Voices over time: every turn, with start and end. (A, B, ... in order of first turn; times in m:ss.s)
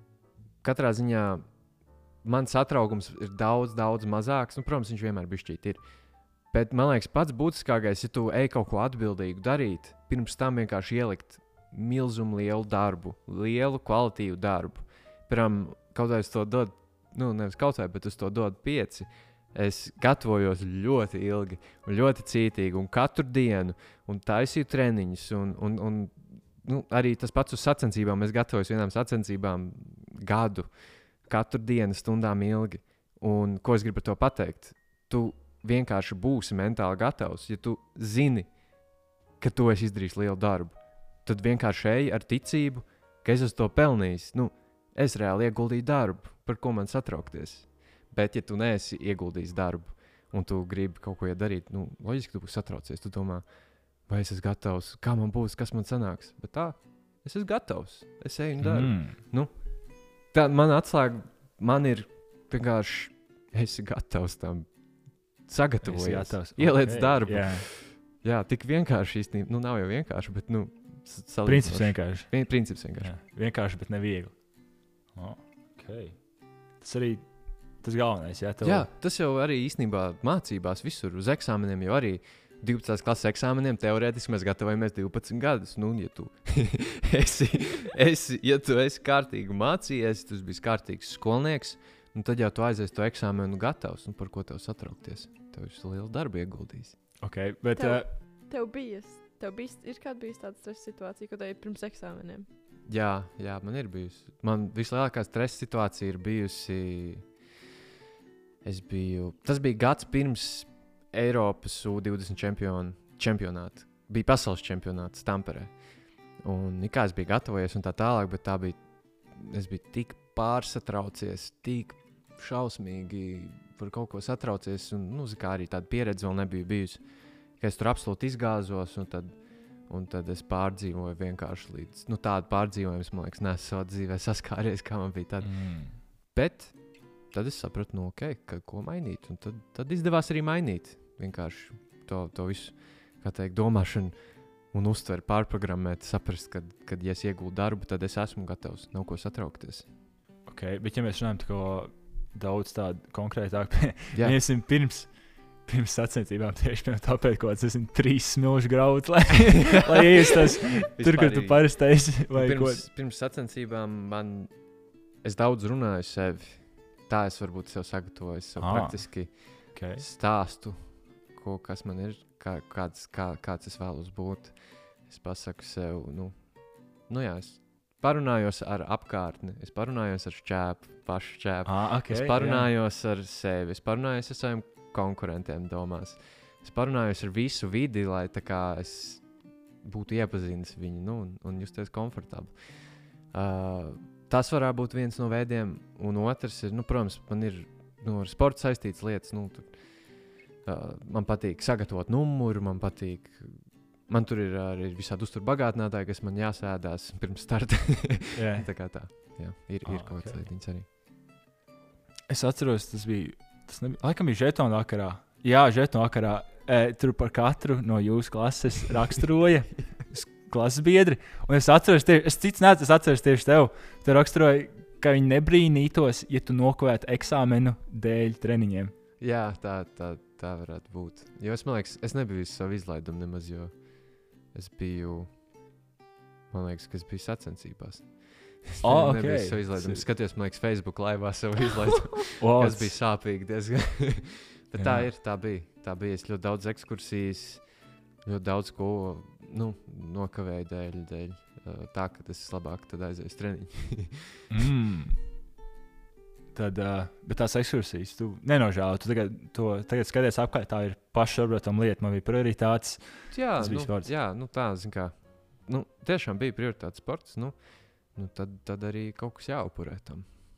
0:00.6-1:13.1 A
0:58.6-0:59.2 B
1:05.8-1:07.7 B
1:11.4-1:18.9 B
1:18.6-1:37.0 A
1:37.2-1:38.1 B
1:37.8-1:42.5 C
1:42.8-1:47.4 A
1:48.6-2:29.9 A
2:15.4-2:16.0 B
2:30.4-2:42.8 B
2:34.1-2:34.4 A
2:40.9-3:30.8 A
2:48.6-2:50.0 B
3:01.6-3:02.7 B
3:28.3-3:30.5 B
3:32.3-3:48.9 B
3:49.2-3:55.4 A
3:56.5-4:14.4 A
3:58.8-4:00.0 B
4:02.4-4:03.0 B
4:04.7-4:05.1 B
4:14.5-4:15.2 B
4:16.5-4:24.1 B
4:23.3-4:30.3 A